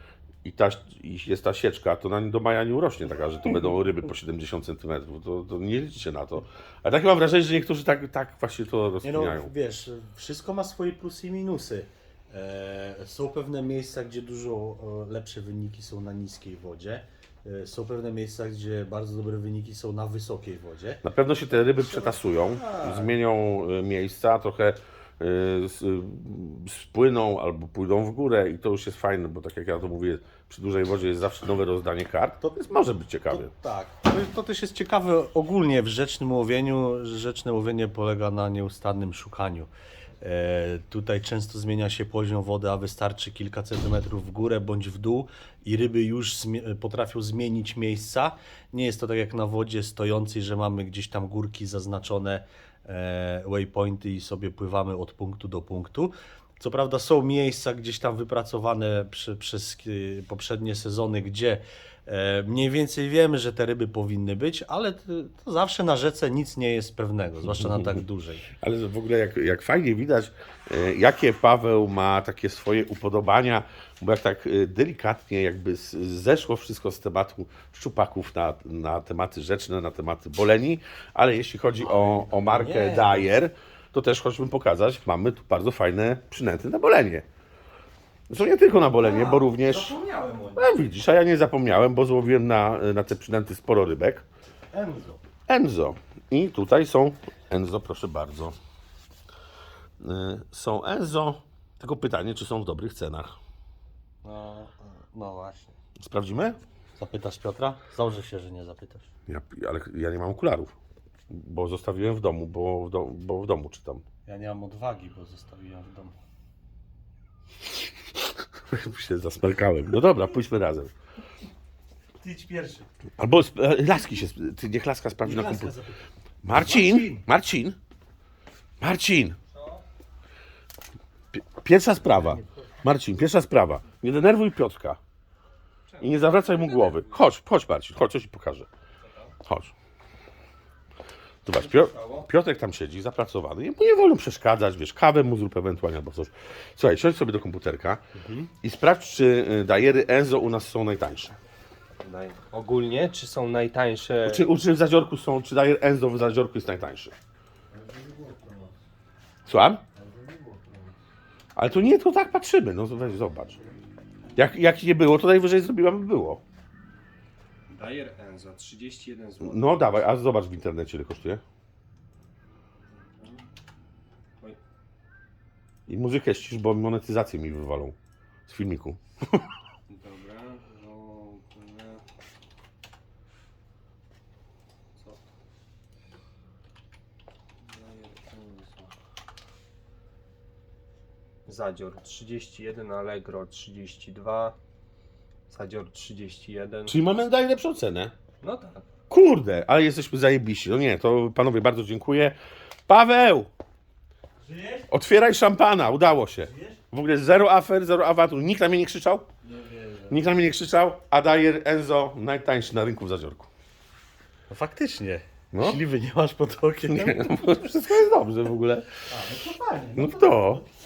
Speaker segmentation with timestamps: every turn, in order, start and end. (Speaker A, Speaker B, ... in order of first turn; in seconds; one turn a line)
Speaker A: 0.4-9.5
Speaker B: 9.0-21.0
Speaker A: 21.0-33.5
Speaker B: 21.8-23.1
Speaker B: 32.4-32.7
Speaker B: 33.3-68.5
Speaker A: 68.5-87.2
Speaker B: 81.8-83.3
Speaker A: 88.3-90.0
Speaker B: 88.9-90.7
Speaker A: 90.6-94.2
Speaker B: 94.7-95.2
Speaker A: 95.5-98.5
Speaker A: 100.0-103.4
Speaker B: 104.2-105.8
Speaker A: 106.0-106.6
Speaker B: 107.0-109.1
Speaker A: 109.3-110.7
Speaker A: 111.3-114.0
Speaker B: 114.3-116.1
Speaker A: 118.7-120.9
Speaker B: 122.2-122.9
Speaker A: 123.2-125.7
Speaker B: 125.2-126.0
Speaker A: 126.4-127.8
Speaker B: 126.5-127.2
Speaker A: 128.8-129.4
Speaker A: 131.3-135.0
Speaker C: 135.9-137.1
Speaker A: 136.0-138.7
Speaker A: 139.4-139.7
Speaker A: 141.4-148.0
Speaker B: 141.6-142.1
Speaker B: 148.2-148.5
Speaker A: 148.6-151.3
Speaker C: 152.0-154.4
Speaker A: 154.2-157.1
Speaker B: 157.7-158.7
Speaker A: 159.5-159.8
Speaker B: 159.9-160.9
Speaker A: 161.6-163.6
Speaker A: 164.3-166.4
Speaker C: 167.7-169.9
Speaker A: 169.4-171.4
Speaker C: 173.2-173.4
Speaker A: 175.9-177.9
Speaker A: 178.5-179.4
Speaker C: 179.9-182.0
Speaker C: 187.6-188.9
Speaker C: 191.4-194.6
Speaker C: 195.5-196.9
Speaker A: 196.9-198.1
Speaker C: 198.4-198.8
Speaker A: 199.1-202.3
Speaker A: 202.9-203.5
Speaker B: 204.4-204.8
Speaker A: 204.9-209.3
Speaker B: 209.4-210.2
Speaker A: 210.1-213.5
Speaker B: 214.5-217.5
Speaker A: 215.5-215.8
Speaker A: 216.9-218.9
Speaker B: 219.1-220.6
Speaker A: 219.9-220.6